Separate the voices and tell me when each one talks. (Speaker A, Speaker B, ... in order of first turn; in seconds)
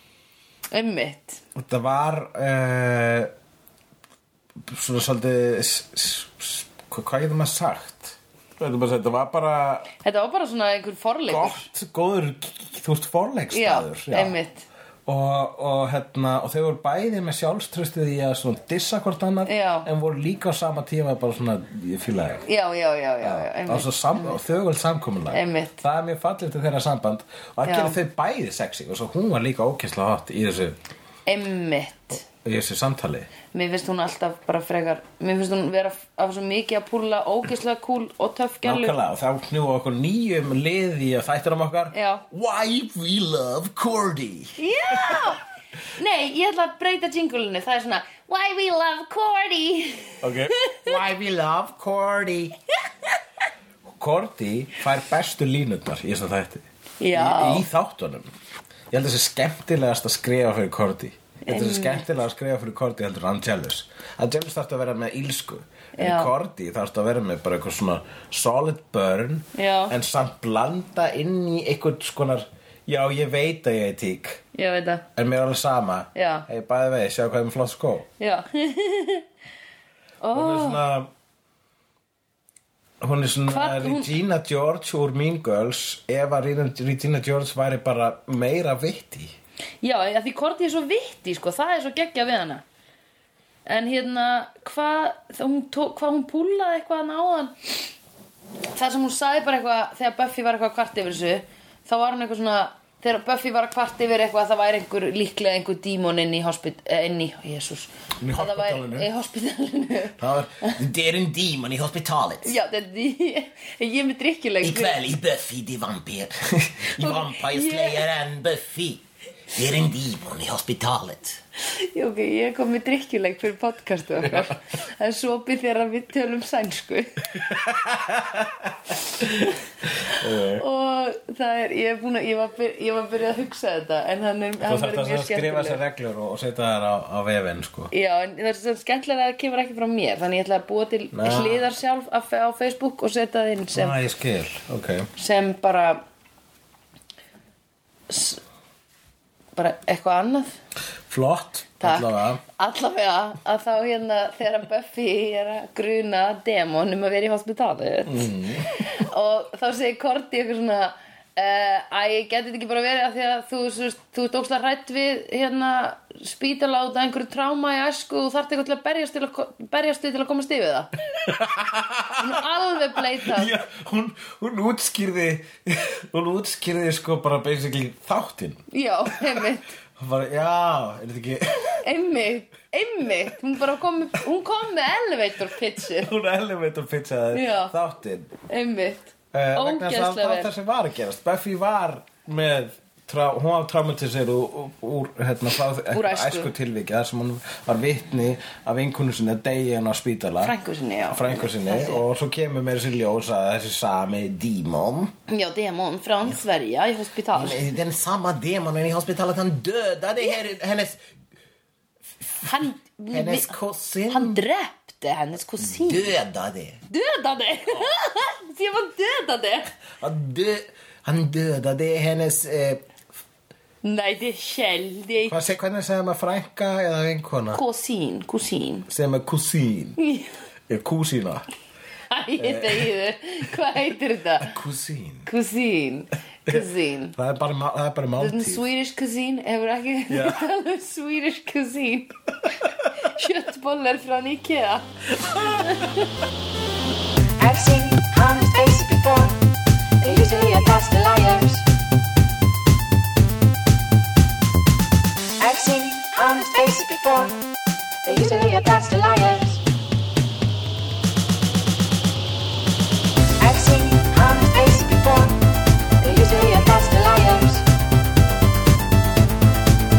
Speaker A: 0.7-1.4, 10.0-11.7, 13.5-14.7, 19.4-19.9, 22.4-24.4, 25.3-25.8, 27.6-28.0, 31.3-32.2, 33.5-38.9, 41.9-42.2, 44.6-45.4, 45.9-50.9, 57.0-57.6, 61.4-62.0, 66.0-66.3, 69.5-69.9, 74.5-75.0, 76.1-76.5, 78.2-79.2, 80.2-80.8, 83.5-84.2, 89.8-92.6, 93.7-97.7, 98.7-110.8, 112.4-115.0, 116.9-118.1, 121.6-127.6, 129.2-129.5, 130.1-135.8, 137.9-143.9, 145.2-146.0, 148.1-148.4, 149.6-150.6, 151.8-171.2, 172.2-173.5, 178.7-179.7, 181.8-186.1, 187.3-187.7, 188.5-190.5, 195.9-196.5, 200.4-202.0, 205.3-207.7, 212.4-213.5, 214.1-216.2, 216.9-219.7, 223.8-225.3, 227.5-228.9, 230.0-230.3, 232.1-234.5, 235.2-237.2, 238.2-242.1, 242.7-244.8, 245.5-246.1
Speaker B: 1.5-3.3, 4.7-9.9, 11.3-14.4, 15.1-22.4, 23.2-30.8, 32.4-33.3, 38.6-45.4, 50.2-52.6, 53.9-58.3, 58.9-74.4, 75.2-78.1, 80.3-81.1, 83.0-89.3, 108.2-109.1, 110.2-112.6, 114.6-121.4, 124.2-124.5, 127.4-130.6, 134.6-137.9, 141.1-141.6, 143.7-145.1, 151.1-152.4, 158.1-158.8, 171.2-172.4, 173.1-178.6, 179.2-181.8, 185.9-188.3, 189.3-200.6, 201.1-205.1, 207.3-211.0, 213.1-214.4, 215.6-216.8, 220.0-222.8, 225.3-227.6, 228.9-230.0, 230.7-231.5, 232.4-232.9, 234.4-235.3, 236.5-238.6, 240.1-240.4, 245.2-245.9
Speaker C: 247.4-249.4, 250.0-251.7, 255.4-257.4, 258.0-259.6, 263.4-265.4, 266.0-267.6